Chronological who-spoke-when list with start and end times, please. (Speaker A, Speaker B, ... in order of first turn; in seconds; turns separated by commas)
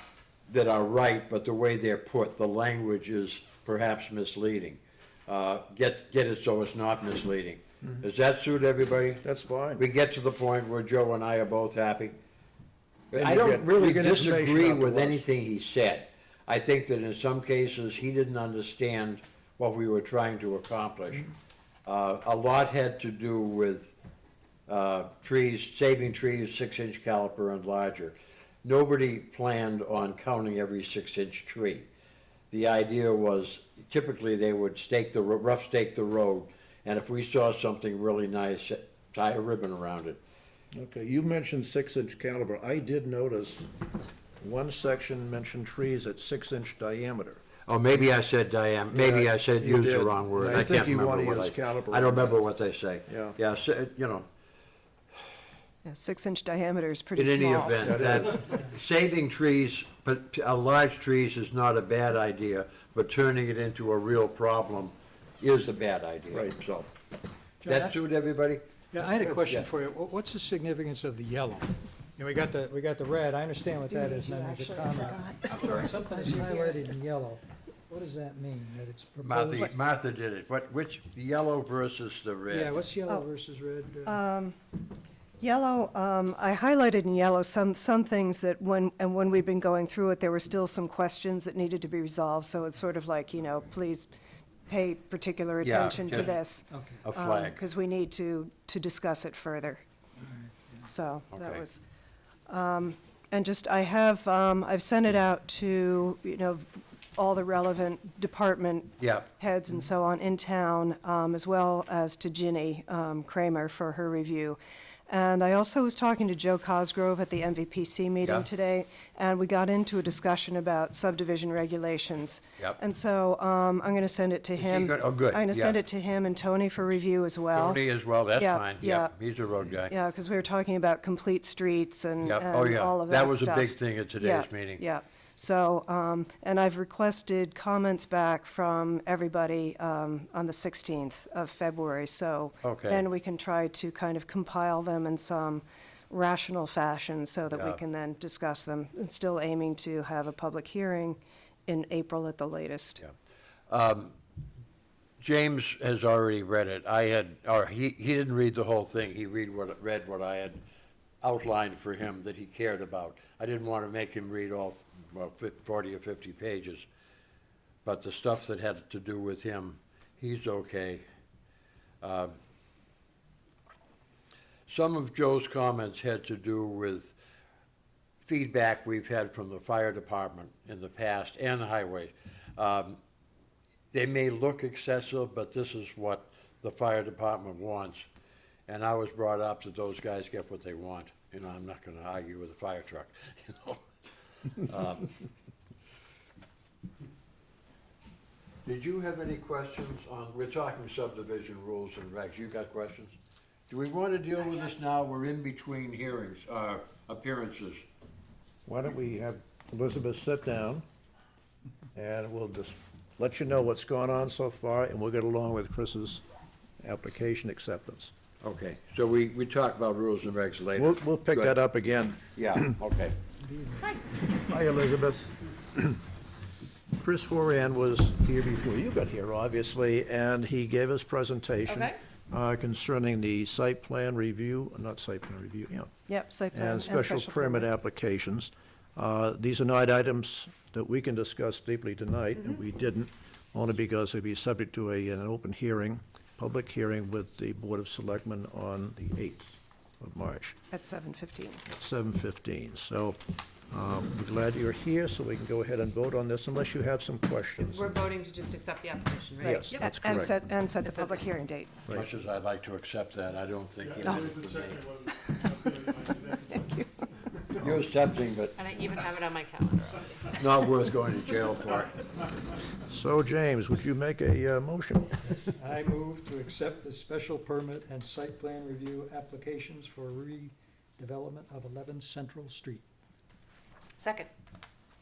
Speaker A: 0.5-9.2, Speaker B: 9.2-9.8, Speaker A: 9.8-12.2, Speaker A: 13.1-21.3, Speaker B: 13.1-15.2, Speaker A: 21.9-23.9, Speaker A: 24.7-31.9, Speaker A: 32.5-40.2, Speaker B: 40.7-43.7, Speaker B: 44.4-47.4, Speaker A: 47.6-54.3, Speaker B: 48.9-52.4, Speaker B: 53.1-53.4, Speaker C: 55.8-57.9, Speaker A: 57.1-66.9, Speaker B: 57.8-58.3, Speaker D: 67.6-67.9, Speaker A: 67.6-68.6, Speaker D: 68.9-79.7, Speaker A: 69.1-69.7, Speaker C: 73.9-76.8, Speaker A: 79.2-82.7, Speaker D: 82.5-84.2, Speaker C: 84.0-84.6, Speaker C: 85.4-94.1, Speaker C: 94.7-99.8, Speaker A: 95.6-96.4, Speaker D: 96.1-97.0, Speaker A: 97.0-97.6, Speaker C: 100.9-101.8, Speaker A: 101.3-101.6, Speaker C: 102.5-127.8, Speaker A: 109.0-109.3, Speaker A: 124.6-125.8, Speaker A: 127.5-129.9, Speaker C: 128.3-129.1, Speaker C: 129.9-153.0, Speaker A: 132.2-134.8, Speaker A: 142.6-143.0, Speaker A: 147.5-147.8, Speaker A: 153.7-154.1, Speaker A: 155.2-160.6, Speaker A: 161.2-166.9, Speaker A: 167.8-171.0, Speaker A: 172.0-172.3, Speaker A: 174.7-177.1, Speaker A: 178.2-183.0, Speaker A: 183.9-188.1, Speaker A: 188.7-193.8, Speaker A: 194.6-195.2, Speaker A: 198.6-203.2, Speaker A: 203.7-207.8, Speaker B: 208.7-210.8, Speaker B: 211.9-216.2, Speaker B: 216.8-218.1, Speaker A: 218.4-221.5, Speaker B: 220.8-222.7, Speaker A: 222.3-223.2, Speaker D: 223.4-224.0, Speaker B: 224.4-226.0, Speaker B: 226.9-235.9, Speaker E: 231.7-232.0, Speaker C: 236.1-237.7, Speaker B: 236.5-250.6, Speaker C: 250.7-251.6, Speaker B: 251.7-258.1, Speaker E: 257.6-260.0, Speaker B: 259.4-260.4, Speaker C: 259.4-261.7, Speaker E: 260.8-261.3, Speaker A: 261.9-264.8, Speaker F: 263.8-266.6, Speaker C: 266.5-266.9, Speaker F: 267.4-267.8, Speaker A: 267.6-268.6, Speaker E: 268.5-270.4, Speaker A: 270.4-272.0, Speaker B: 272.9-275.2, Speaker D: 275.5-282.8, Speaker E: 284.0-284.3